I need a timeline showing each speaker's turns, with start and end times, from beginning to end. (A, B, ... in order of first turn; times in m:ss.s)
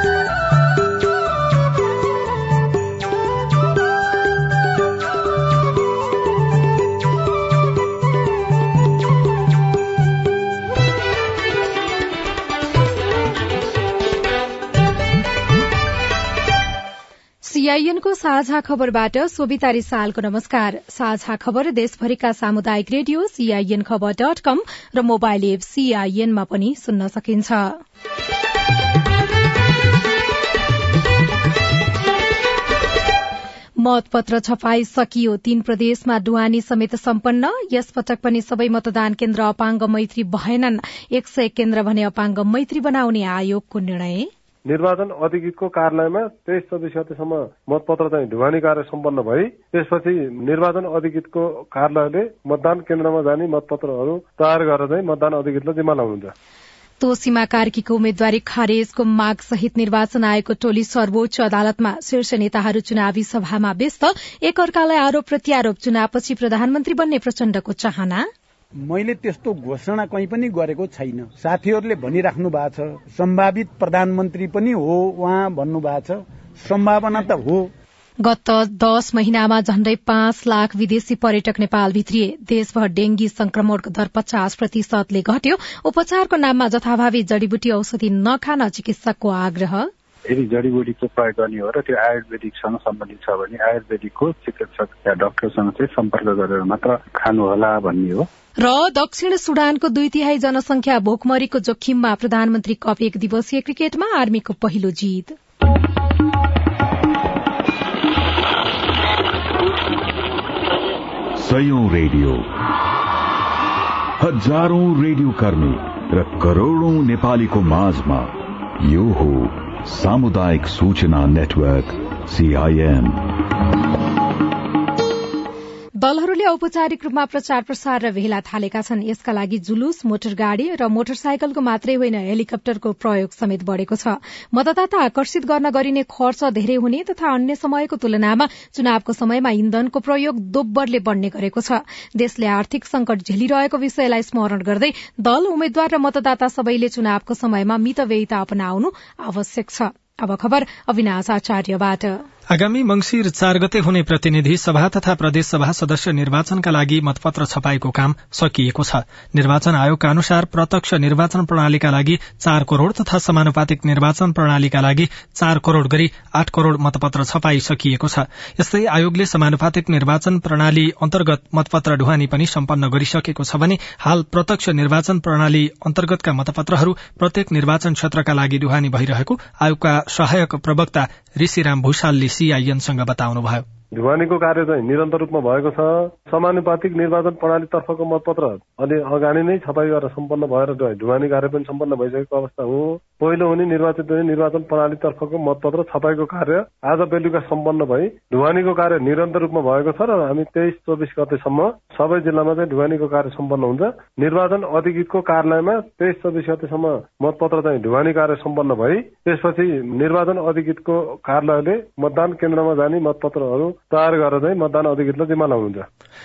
0:17.4-0:27.8 A
0:33.8-0:44.3 A
0:44.7-0:56.3 B
0:57.0-1:08.3 A
1:08.8-1:17.7 C
1:18.2-1:29.9 A
1:30.3-1:38.3 D
1:38.6-1:45.4 A
1:51.4-1:52.5 E
1:54.2-2:03.2 E
2:06.0-2:32.2 A
2:32.5-3:03.6 F
3:04.0-3:35.8 B